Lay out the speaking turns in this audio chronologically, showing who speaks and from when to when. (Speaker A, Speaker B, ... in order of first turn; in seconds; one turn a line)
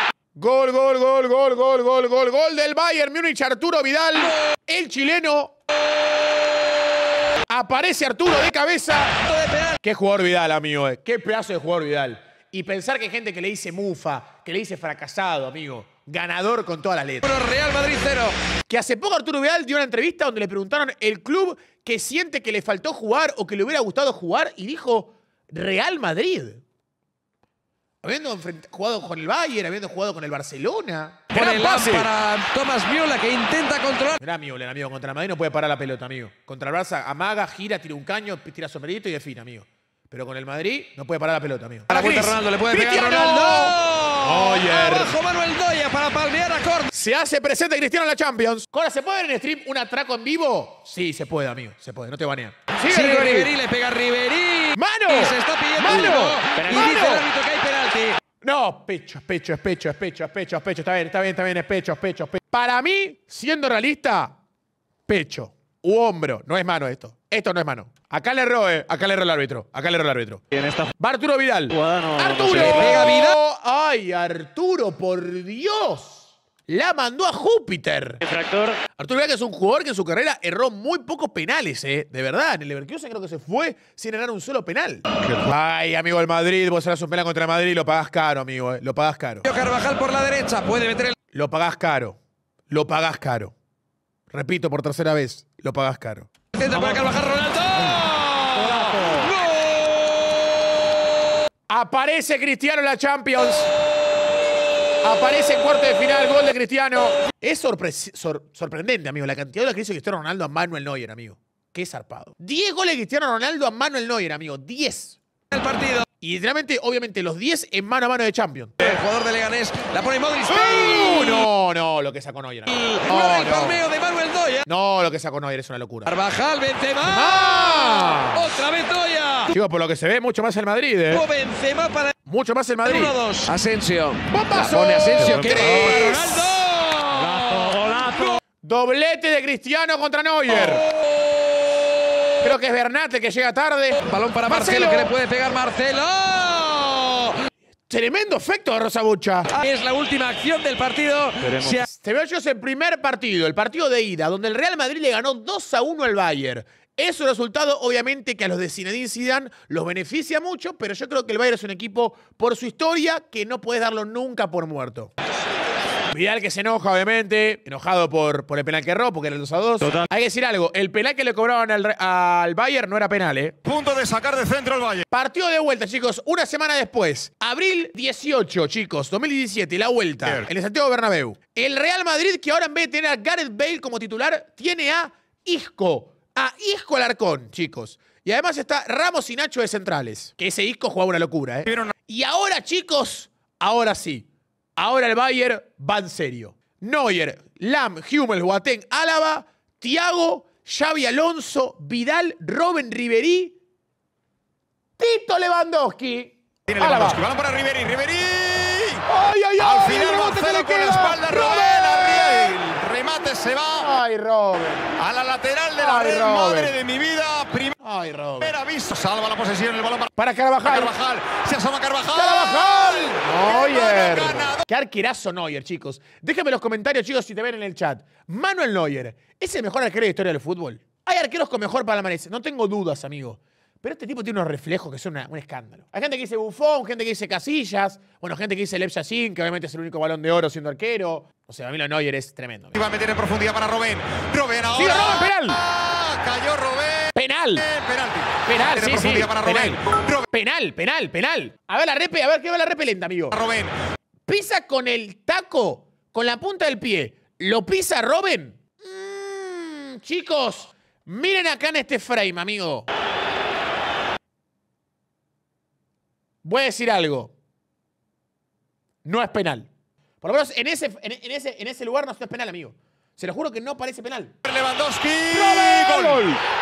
Speaker A: 0.3-5.5
Speaker A: 7.5-9.2
Speaker B: 9.2-9.8
Speaker A: 9.8-17.4
Speaker B: 17.2-18.3
Speaker A: 18.7-26.6
Speaker A: 28.0-32.1
Speaker B: 31.3-34.2
Speaker A: 34.2-45.1
Speaker B: 41.9-46.9
Speaker A: 46.9-53.5
Speaker B: 52.8-58.2
Speaker A: 54.8-57.3
Speaker A: 58.4-64.4
Speaker A: 65.1-70.4
Speaker A: 71.0-78.2
Speaker B: 72.4-73.4
Speaker A: 78.9-89.5
Speaker B: 89.5-91.2
Speaker A: 91.3-92.2
Speaker A: 92.7-93.5
Speaker A: 94.3-96.3
Speaker B: 96.5-100.5
Speaker A: 98.6-99.2
Speaker A: 101.7-103.7
Speaker A: 105.0-115.2
Speaker B: 115.5-116.0
Speaker A: 116.2-119.0
Speaker B: 118.8-121.5
Speaker A: 120.5-123.8
Speaker B: 122.7-124.7
Speaker A: 124.7-126.1
Speaker B: 126.0-129.5
Speaker A: 127.0-128.5
Speaker A: 129.5-131.2
Speaker B: 131.1-132.1
Speaker A: 132.3-133.2
Speaker B: 132.8-138.4
Speaker A: 134.3-136.5
Speaker A: 138.6-140.8
Speaker B: 140.5-140.8
Speaker A: 142.4-145.1
Speaker B: 144.1-147.4
Speaker A: 147.9-149.5
Speaker B: 149.5-151.9
Speaker A: 151.7-165.1
Speaker A: 166.1-173.6
Speaker C: 173.6-175.1
Speaker A: 175.1-203.6
Speaker C: 191.7-191.9
Speaker A: 205.0-207.2
Speaker C: 206.7-209.0
Speaker A: 209.1-212.6
Speaker C: 209.6-213.9
Speaker A: 213.8-214.9
Speaker C: 215.0-217.7
Speaker A: 215.8-216.8
Speaker A: 217.8-218.6
Speaker C: 218.4-220.1
Speaker A: 220.2-220.9
Speaker C: 220.7-224.6
Speaker A: 222.1-242.8
Speaker C: 242.8-250.3
Speaker A: 244.7-245.6
Speaker A: 247.1-247.7
Speaker A: 248.4-253.4
Speaker C: 253.3-253.7
Speaker A: 254.3-262.9
Speaker A: 266.4-267.3
Speaker A: 269.0-269.7
Speaker A: 270.2-274.3
Speaker C: 274.4-276.3
Speaker A: 275.3-276.4